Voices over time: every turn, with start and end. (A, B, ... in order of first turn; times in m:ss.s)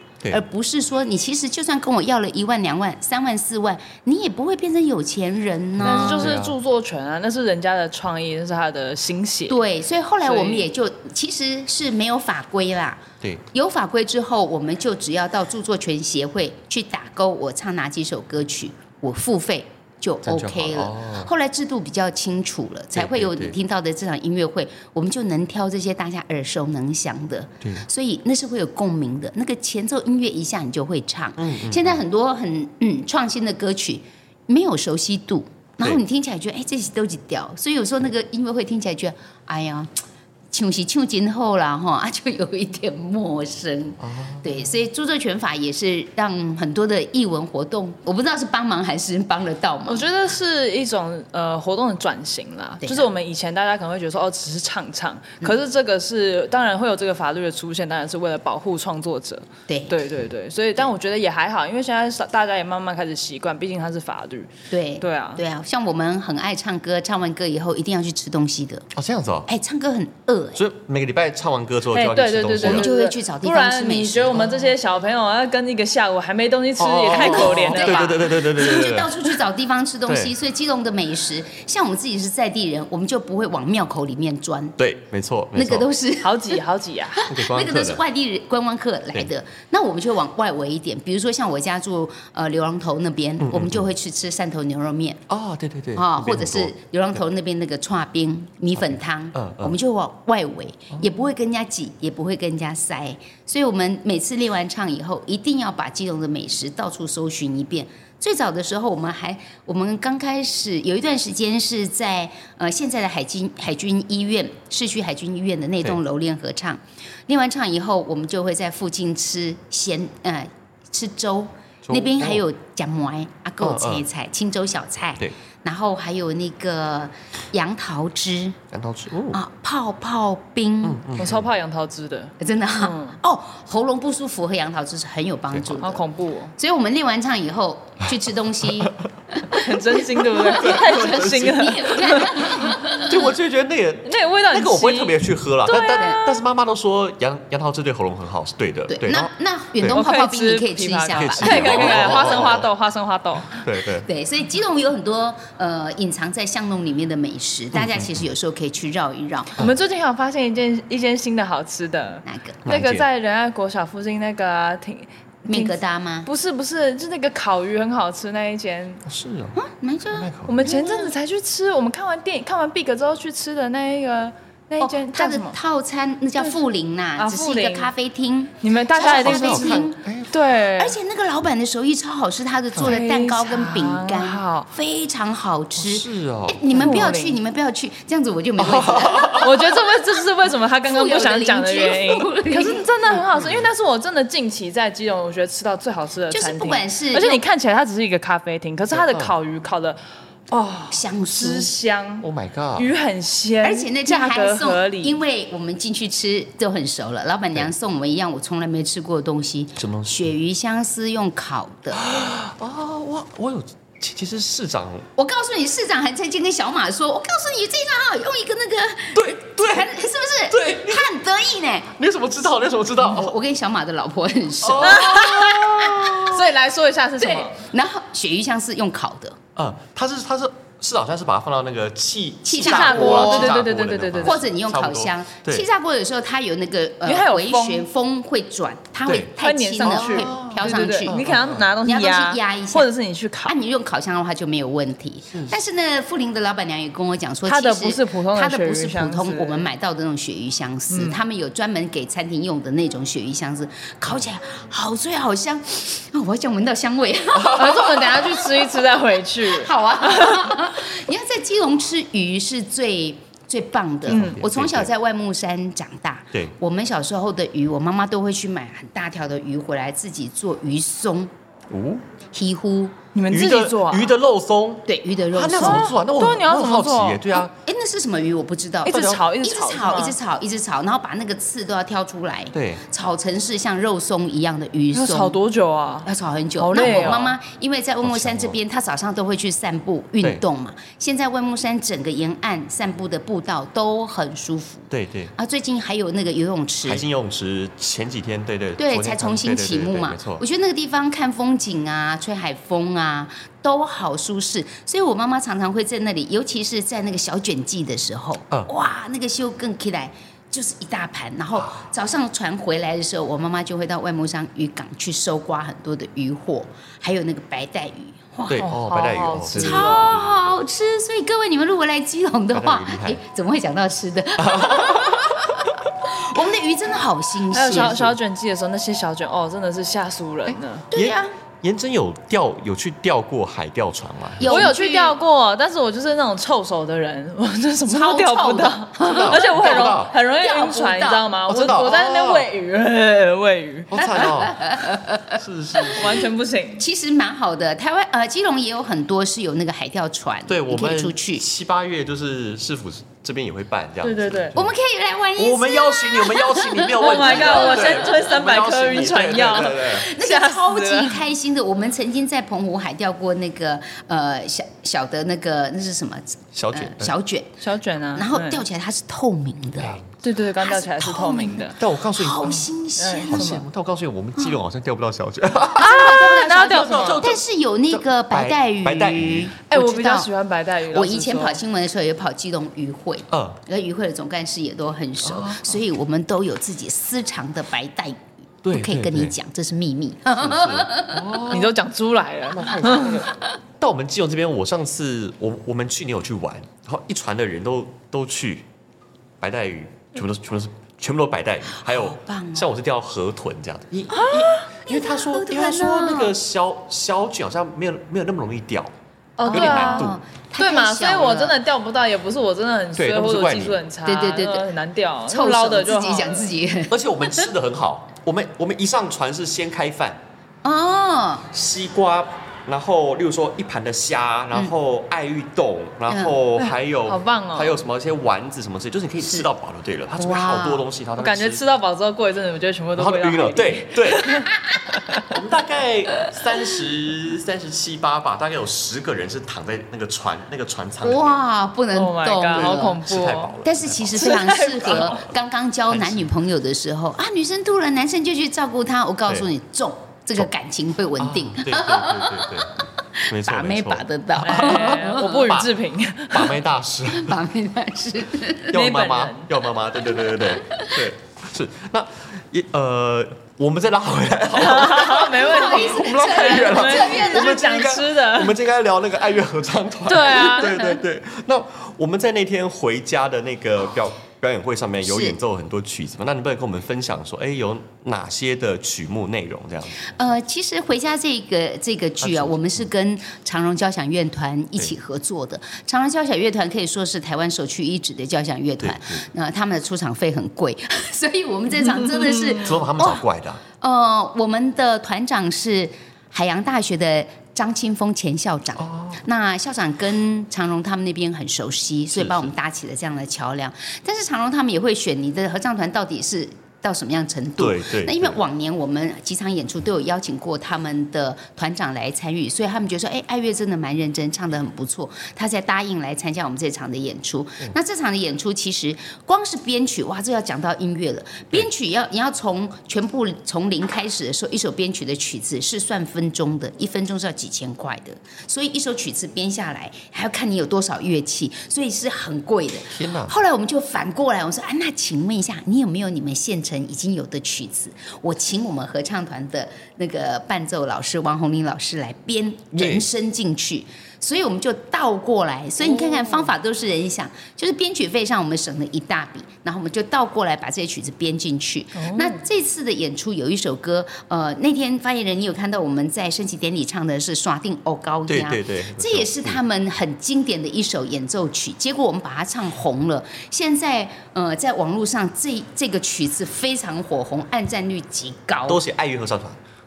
0:00.3-0:06.3 A
0:05.8-0:06.6 B
0:05.8-0:09.6 C
0:09.5-0:39.9 A
0:10.2-0:10.7 C
0:20.2-0:21.3 B
0:22.9-0:23.6 B
0:31.4-0:32.0 B
0:40.5-0:50.0 A
0:44.0-0:44.7 B
0:49.8-1:05.4 C
0:52.8-0:53.1 A
0:59.7-1:00.0 A
1:04.7-1:08.9 A
1:08.9-1:09.5 B
1:09.5-1:10.6 A
1:10.6-1:12.9 B
1:11.9-1:18.9 C
1:12.6-1:14.6 A
1:16.8-1:19.1 B
1:17.1-1:24.8 A
1:20.0-1:20.3 B
1:24.8-1:25.9 B
1:25.5-1:26.6 A
1:26.2-1:27.3 C
1:27.2-1:35.2 A
1:27.3-1:28.0 B
1:33.4-1:33.9 B
1:35.3-1:36.7 B
1:35.9-2:08.6 A
1:39.3-1:39.8 B
2:01.8-2:02.4 B
2:03.6-2:04.0 B
2:08.7-2:09.4 B
2:09.3-2:11.0 A
2:10.8-2:11.4 B
2:11.2-2:13.2 C
2:12.4-2:16.0 A
2:15.5-2:15.8 B
2:15.8-2:16.5 C
2:16.6-2:23.3 A
2:19.5-2:22.8 C
2:20.6-2:21.8 B
2:23.0-2:30.0 B
2:24.0-2:26.3 C
2:28.9-2:32.4 A
2:29.9-2:33.6 C
2:31.1-2:32.7 B
2:33.5-2:34.1 B
2:34.1-2:39.6 A
2:37.7-2:38.2 B
2:39.6-2:49.0 C
2:42.2-2:42.6 A
2:42.6-2:43.1 B
2:45.5-2:46.3 A
2:49.0-2:49.6 B
2:49.6-2:51.1 A
2:50.1-2:50.9 B
2:50.5-2:55.5 C
2:54.8-3:00.0 A
2:57.2-2:57.9 C
2:58.6-3:01.0 C
2:59.0-3:00.4 B
3:00.8-3:09.7 A
3:02.8-3:04.7 C
3:05.8-3:07.1 B
3:06.7-3:07.4 C
3:08.6-3:09.6 B
3:09.3-3:20.0 C
3:10.8-3:12.8 A
3:13.3-3:13.7 B
3:16.3-3:17.4 A
3:18.9-3:19.3 B
3:20.5-3:25.2 C
3:20.9-3:21.7 A
3:22.2-3:22.9 B
3:23.6-3:32.1 A
3:29.8-3:30.3 B
3:31.9-3:35.1 B
3:35.2-3:41.9 A
3:39.1-3:39.9 B
3:40.5-3:41.2 B
3:41.9-3:43.3 B
3:43.0-3:46.4 A
3:44.6-3:46.4 B
3:44.8-3:47.6 C
3:47.2-3:49.4 A
3:49.6-3:55.6 B
3:52.4-3:53.6 A
3:52.6-3:54.4 C
3:54.2-4:01.2 A
3:57.0-3:57.9 C
3:59.0-3:59.3 B
3:59.4-4:03.5 C
3:59.8-4:01.6 B
4:01.8-4:02.9 A
4:03.4-4:18.0 A
4:07.4-4:09.7 C
4:10.9-4:11.2 C
4:17.4-4:20.6 C
4:19.4-4:31.3 A
4:24.1-4:24.4 C
4:24.1-4:24.9 B
4:31.7-4:32.0 B
4:32.3-4:32.9 A
4:33.1-4:34.1 C
4:33.3-4:37.5 B
4:34.8-4:35.9 A
4:35.6-4:37.3 C
4:37.5-4:45.4 A
4:38.8-4:40.2 C
4:38.9-4:39.2 B
4:42.5-4:42.8 B
4:44.9-4:47.3 C
4:46.0-4:57.0 A
4:46.8-4:47.3 B
4:48.0-4:48.6 B
4:54.9-4:55.3 B
4:56.8-5:00.4 B
4:58.8-5:18.7 A
5:18.5-5:20.6 B
5:18.6-5:20.2 C
5:19.5-5:28.1 A
5:22.5-5:23.2 B
5:24.4-5:25.7 B
5:27.5-5:30.8 C
5:30.5-5:34.7 B
5:30.9-5:31.3 A
5:34.4-5:35.2 A
5:34.4-5:44.2 C
5:37.9-5:41.3 A
5:39.0-5:40.1 B
5:41.5-5:42.5 B
5:43.9-5:46.3 B
5:44.0-5:46.0 A
5:45.9-5:46.8 C
5:46.8-5:51.4 A
5:50.5-5:54.7 B
5:54.0-5:54.5 C
5:54.5-5:58.2 A
5:55.4-6:00.1 B
5:56.9-6:01.2 C
5:59.7-6:07.5 A
6:06.5-6:07.1 B
6:07.6-6:08.6 C
6:08.1-6:10.0 A
6:09.8-6:10.1 B
6:10.2-6:11.8 C
6:10.6-6:13.5 A
6:11.8-6:12.7 B
6:13.0-6:13.6 C
6:13.2-6:19.5 B
6:15.8-6:17.2 C
6:15.8-6:20.3 A
6:19.7-6:21.6 C
6:20.9-6:31.4 A
6:23.3-6:23.6 B
6:25.2-6:25.8 B
6:28.6-6:29.3 B
6:30.4-6:31.8 B
6:31.5-6:33.2 C
6:32.5-6:38.6 B
6:39.4-6:48.9 B
6:41.9-6:42.7 A
6:44.1-6:44.7 C
6:44.8-6:46.3 A
6:49.4-6:56.5 C
6:49.4-6:51.6 A
6:49.5-6:50.2 B
6:53.0-6:53.8 B
6:54.0-6:54.7 A
6:55.3-6:57.4 A
6:56.9-7:00.2 B
7:00.6-7:01.5 A
7:01.5-7:11.6 B
7:06.1-7:06.4 A
7:06.6-7:07.8 C
7:10.2-7:10.7 A
7:10.2-7:15.3 C
7:13.0-7:14.4 B
7:15.3-7:21.4 B
7:21.0-7:23.0 A
7:21.9-7:23.6 C
7:22.5-7:25.3 B
7:23.6-7:35.5 A
7:24.2-7:25.2 C
7:25.9-7:26.3 B
7:31.2-7:35.7 B
7:34.4-7:36.6 C
7:36.3-7:37.4 B
7:37.1-7:38.8 A
7:38.7-8:00.1 B
7:38.7-7:39.5 C
7:40.2-7:41.1 A
7:44.6-7:48.6 C
7:45.2-7:47.6 A
7:50.1-7:51.0 C
7:55.0-7:55.4 A
8:00.0-8:13.2 A
8:02.2-8:02.8 B
8:08.8-8:09.2 B
8:12.6-8:13.6 B
8:13.8-9:28.8 A
8:18.8-8:19.2 B
8:22.1-8:22.5 B
8:27.6-8:28.4 B
8:52.9-8:53.3 B
9:02.8-9:03.0 B
9:05.8-9:06.5 C
9:12.0-9:12.4 C
9:18.3-9:19.6 B
9:28.7-9:29.6 B